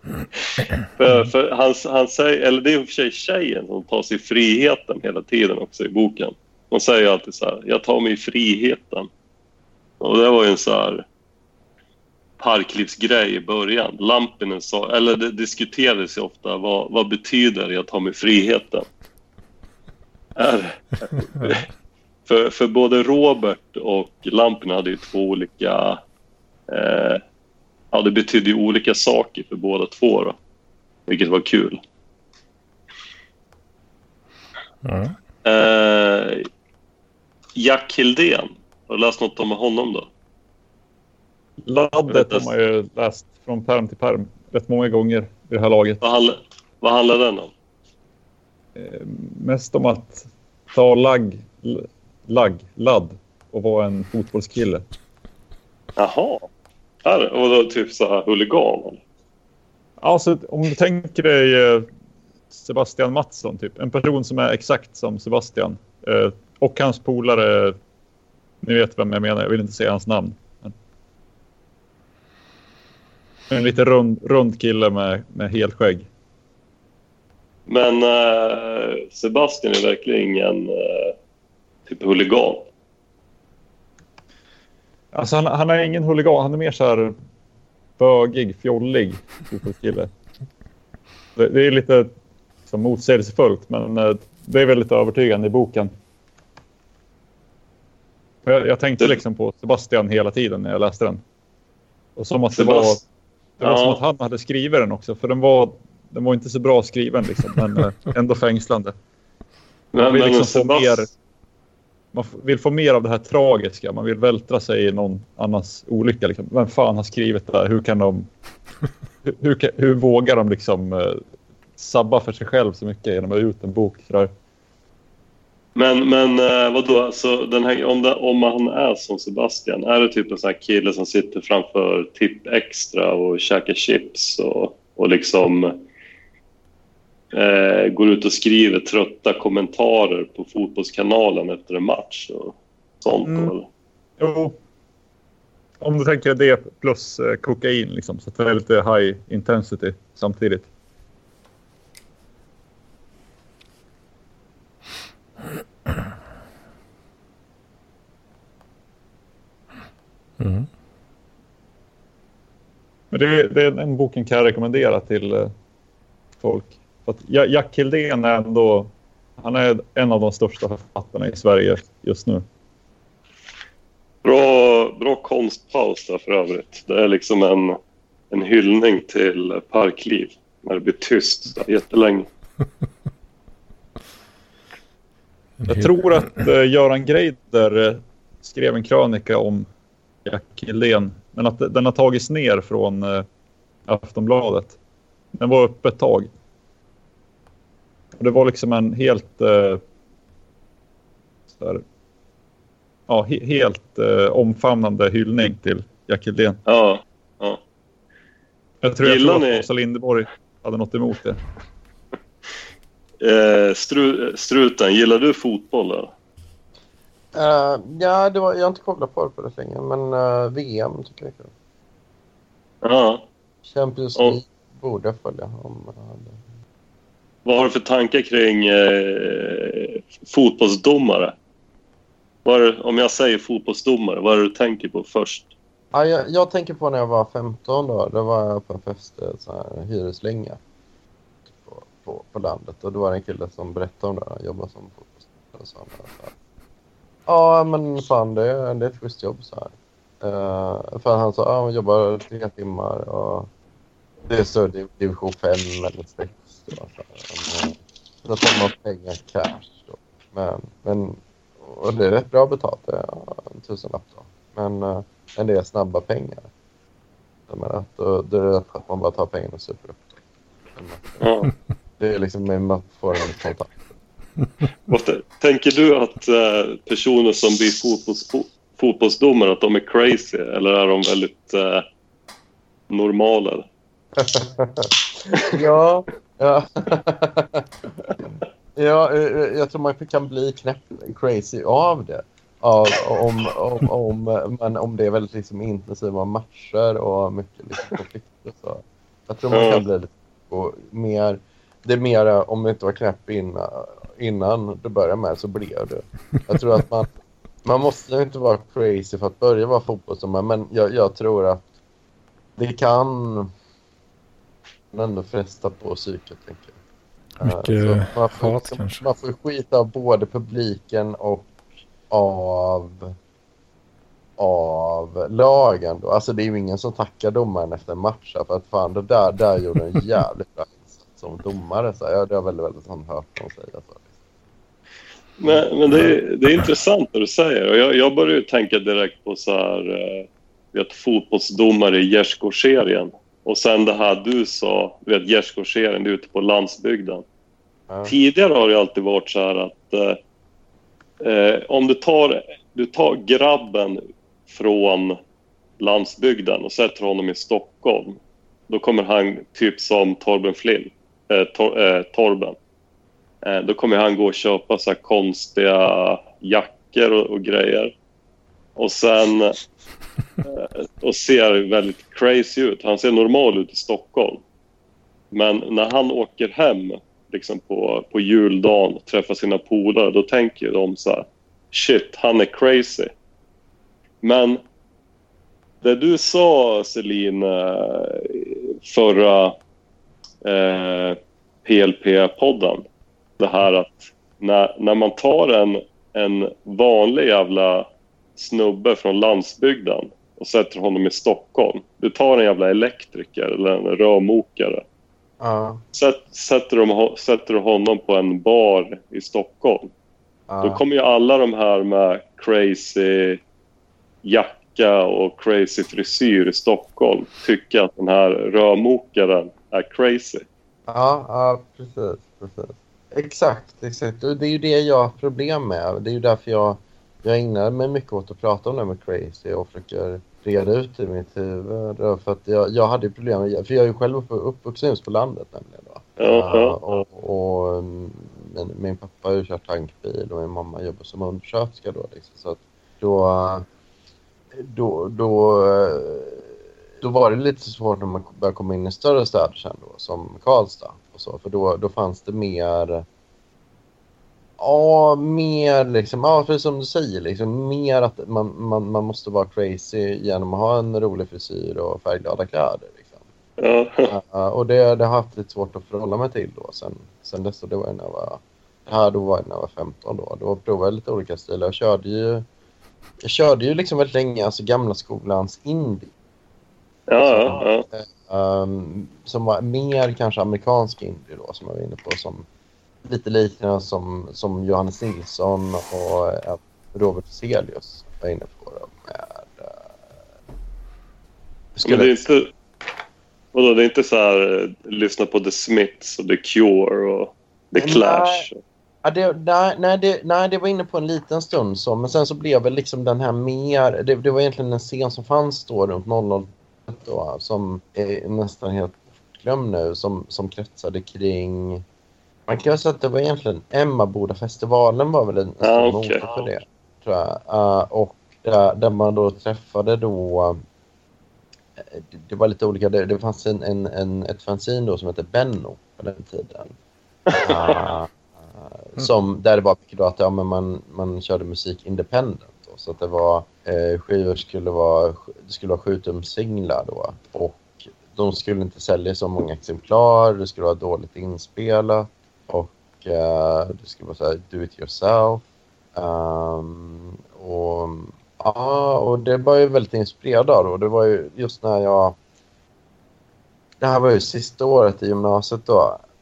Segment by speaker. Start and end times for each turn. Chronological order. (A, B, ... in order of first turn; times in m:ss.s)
0:01.0-0:09.1 A
0:10.0-0:11.0 A
0:12.4-0:18.8 A
0:20.4-0:21.6 A
0:22.2-0:26.0 A
0:26.7-0:27.2 A
0:27.9-0:30.3 A
0:31.1-0:31.8 A
0:34.8-0:35.1 B
0:35.4-0:36.5 A
0:37.6-0:40.1 A
0:41.6-0:46.0 C
0:42.1-0:42.5 A
0:46.0-0:47.5 A
0:48.7-0:54.8 C
0:56.0-0:56.5 A
0:57.0-0:59.0 A
1:00.0-1:01.9 C
1:02.5-1:07.8 C
1:08.6-1:10.7 C
1:13.5-1:16.0 C
1:17.7-1:21.1 A
1:21.9-1:22.7 A
1:25.1-1:27.1 C
1:28.0-1:30.1 C
1:31.4-1:32.1 C
1:32.7-1:35.9 C
1:38.4-1:41.2 C
1:42.2-1:43.0 C
1:42.5-1:43.0 A
1:43.6-1:48.9 C
1:43.6-1:44.0 A
1:49.9-1:51.1 A
1:50.0-1:51.1 C
1:52.1-1:58.3 C
1:59.2-2:01.2 C
2:01.8-2:04.3 C
2:05.7-2:15.8 A
2:17.3-2:23.7 A
2:23.2-2:23.5 C
2:24.2-2:24.6 C
2:25.8-2:30.7 C
2:40.4-2:40.7 B
2:43.1-2:45.5 C
2:46.4-2:52.4 C
2:54.2-2:57.8 A
2:58.3-3:02.3 A
3:05.6-3:06.4 B
3:05.7-3:09.7 C
3:10.2-3:13.2 C
3:13.9-3:14.8 C
3:15.4-3:16.3 C
3:18.2-3:19.8 C
3:23.1-3:26.6 C
3:26.6-3:27.6 A
3:28.8-3:31.4 C
3:29.0-3:29.6 A
3:33.2-3:36.1 A
3:37.3-3:41.5 D
3:42.8-3:43.2 A
3:43.6-3:46.4 D
3:47.4-3:51.3 A
3:52.4-3:55.5 A
3:55.9-4:00.6 D
4:01.5-4:06.3 D
4:07.3-4:13.5 D
4:14.2-4:26.4 D
4:27.5-4:30.2 D
4:30.7-4:31.2 D
4:31.2-4:31.5 A
4:32.0-4:33.7 D
4:34.9-4:41.8 A
4:42.9-4:43.6 A
4:44.2-4:47.6 D
4:48.8-5:07.1 D
4:59.5-4:59.8 A
5:07.6-5:11.6 D
5:12.6-5:13.5 D
5:14.9-5:16.7 D
5:17.4-5:19.0 B
5:17.4-5:21.5 D
5:22.1-5:23.1 D
5:24.4-5:34.0 D
5:35.4-5:47.2 A
5:48.0-5:50.2 A
5:51.2-5:55.2 A
5:55.8-6:02.6 A
6:03.4-6:07.9 A
6:08.8-6:09.5 A
6:10.4-6:14.4 A
6:15.3-6:23.1 A
6:24.2-6:24.6 A
6:25.8-6:29.6 A
6:30.4-6:32.8 A
6:33.4-6:44.8 A
6:45.4-6:45.8 D
6:45.9-6:49.9 A
6:50.5-6:50.8 D
6:50.6-6:53.4 A
6:54.2-7:00.4 A
7:00.9-7:23.6 D
7:16.2-7:16.8 A
7:24.5-7:26.5 D
7:27.0-7:33.0 D
7:34.6-7:43.2 D
7:43.6-7:44.1 A
7:44.1-7:52.5 D
7:53.2-7:56.1 D
7:57.1-7:57.8 A
7:57.2-8:02.4 D
8:03.0-8:09.8 D
8:11.7-8:12.2 D
8:11.8-8:12.5 A
8:13.5-8:18.6 A
8:17.8-8:18.5 D
8:19.0-8:31.8 D
8:32.5-8:40.6 D
8:35.6-8:36.5 A
8:41.8-8:46.7 D
8:47.3-8:47.8 A
8:47.3-9:05.4 D
9:05.9-9:12.2 D
9:13.8-9:16.0 D